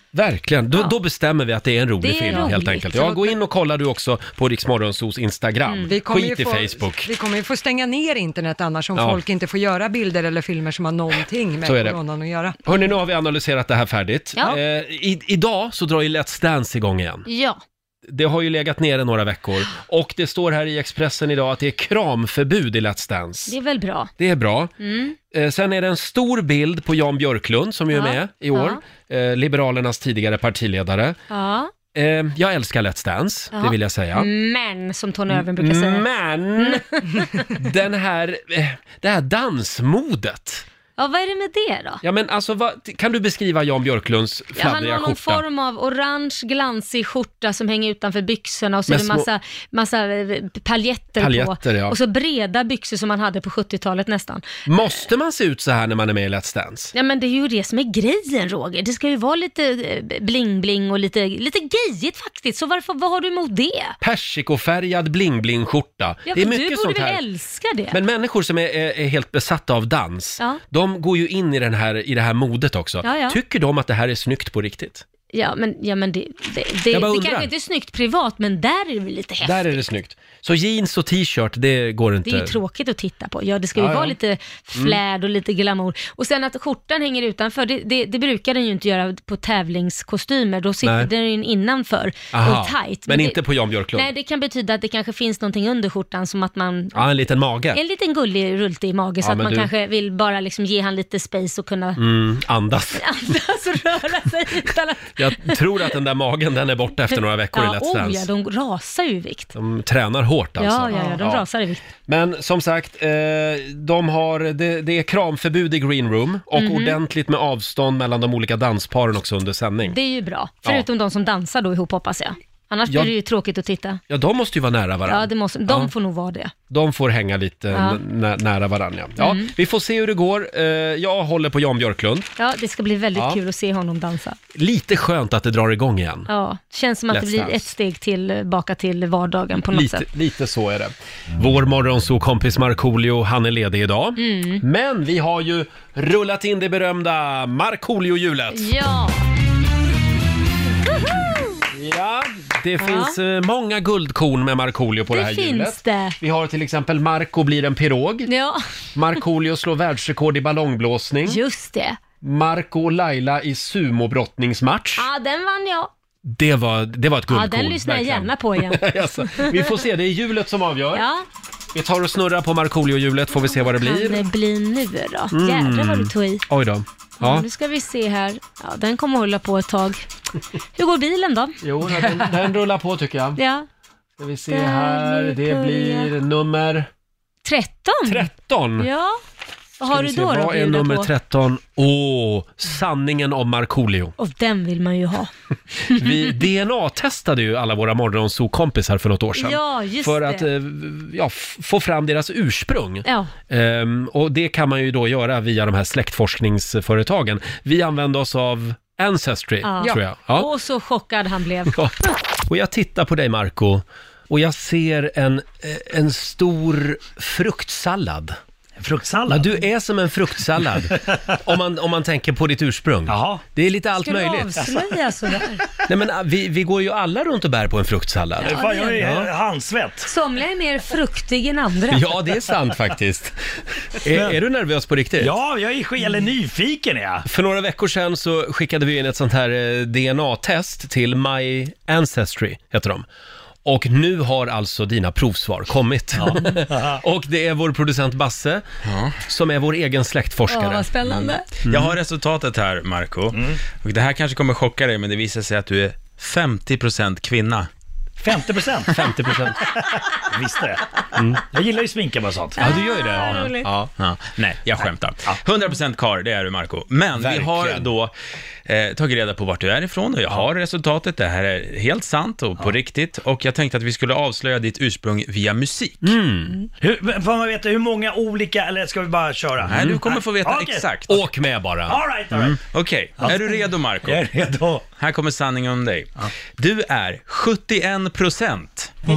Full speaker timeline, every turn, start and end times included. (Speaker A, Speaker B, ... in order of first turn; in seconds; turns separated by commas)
Speaker A: 0.1-7.1, Speaker B: 2.0-3.3, Speaker B: 5.7-5.9, Speaker C: 5.9-12.6, Speaker A: 11.7-12.0, Speaker A: 12.7-17.3, Speaker B: 17.3-17.6, Speaker A: 18.1-23.6, Speaker B: 23.5-24.1, Speaker A: 24.2-24.7, Speaker B: 24.8-25.2, Speaker A: 25.3-31.2, Speaker B: 27.9-28.8, Speaker B: 31.3-31.7, Speaker A: 31.9-34.3, Speaker B: 33.5-36.1, Speaker A: 35.3-40.6, Speaker B: 36.6-37.6, Speaker B: 41.0-42.0, Speaker A: 42.0-45.4, Speaker B: 44.5-54.4, Speaker A: 48.9-49.3, Speaker A: 51.2-52.0, Speaker A: 54.7-56.9, Speaker B: 56.9-64.0, Speaker A: 64.0-67.2, Speaker B: 66.3-68.0, Speaker A: 67.9-75.0, Speaker B: 73.0-73.4, Speaker B: 75.3-79.8, Speaker A: 76.9-77.5, Speaker A: 79.4-82.6, Speaker B: 82.2-93.4, Speaker A: 83.8-84.2, Speaker A: 90.8-91.1, Speaker A: 92.3-94.1, Speaker B: 93.9-97.0, Speaker A: 96.9-97.8, Speaker B: 97.7-102.0, Speaker A: 99.2-99.7, Speaker A: 102.0-103.0, Speaker B: 102.9-105.6, Speaker A: 105.2-108.3, Speaker B: 107.5-109.5, Speaker A: 109.5-111.5, Speaker B: 110.6-111.9, Speaker A: 112.1-120.0, Speaker B: 116.5-117.0, Speaker B: 119.9-124.0, Speaker A: 122.9-123.1, Speaker A: 124.1-125.9, Speaker B: 125.1-126.5, Speaker A: 126.7-132.3, Speaker B: 127.7-128.0, Speaker B: 129.2-129.5, Speaker B: 132.4-134.4, Speaker A: 134.6-136.3, Speaker B: 136.3-140.1, Speaker A: 137.1-137.7, Speaker A: 139.7-148.7, Speaker B: 144.2-144.6, Speaker B: 148.5-149.2, Speaker B: 150.9-151.6, Speaker A: 151.7-158.3, Speaker B: 152.8-153.2, Speaker B: 155.1-156.2, Speaker B: 158.3-158.6, Speaker A: 158.9-161.4, Speaker B: 161.3-162.0, Speaker A: 162.2-165.1, Speaker B: 165.0-165.9, Speaker A: 166.2-171.1, Speaker B: 167.3-169.8, Speaker B: 170.9-171.3, Speaker A: 171.8-174.3, Speaker B: 173.7-176.4, Speaker A: 175.3-177.5, Speaker B: 177.2-180.0, Speaker B: 180.8-182.3, Speaker A: 181.6-183.4, Speaker B: 183.4-183.7, Speaker A: 184.2-186.9, Speaker B: 184.5-186.1, Speaker B: 187.4-189.2, Speaker A: 188.1-188.9, Speaker B: 189.8-191.1, Speaker A: 189.9-194.2, Speaker B: 194.2-195.3, Speaker B: 195.8-196.4, Speaker A: 195.9-210.5, Speaker B: 199.3-200.5, Speaker B: 203.1-203.3, Speaker B: 209.6-211.8, Speaker A: 211.7-218.4, Speaker D: 218.8-219.6, Speaker A: 219.3-224.7, Speaker D: 223.1-223.4, Speaker B: 224.0-225.6, Speaker A: 225.9-229.3, Speaker B: 228.4-229.1, Speaker D: 228.4-230.1, Speaker B: 230.1-232.1, Speaker A: 231.9-233.3, Speaker A: 234.0-235.4, Speaker D: 234.1-234.4, Speaker D: 235.2-237.2, Speaker A: 237.2-243.1, Speaker A: 243.7-248.7, Speaker D: 246.2-247.0, Speaker E: 248.8-249.2, Speaker A: 249.2-250.9, Speaker B: 250.5-251.5, Speaker E: 251.1-257.7, Speaker A: 251.7-251.9, Speaker D: 253.3-253.6, Speaker D: 258.2-259.0, Speaker A: 258.9-259.6, Speaker D: 259.8-260.8, Speaker A: 261.2-261.4, Speaker D: 261.5-262.6, Speaker B: 262.6-263.7, Speaker A: 262.6-263.9, Speaker D: 263.2-263.5, Speaker E: 263.9-268.1, Speaker A: 267.2-267.9, Speaker E: 268.7-276.1, Speaker A: 276.0-276.6, Speaker D: 276.8-280.9, Speaker E: 279.6-281.1, Speaker A: 281.1-282.0, Speaker D: 281.9-282.6, Speaker E: 282.3-284.2, Speaker D: 283.2-284.9, Speaker E: 285.0-289.0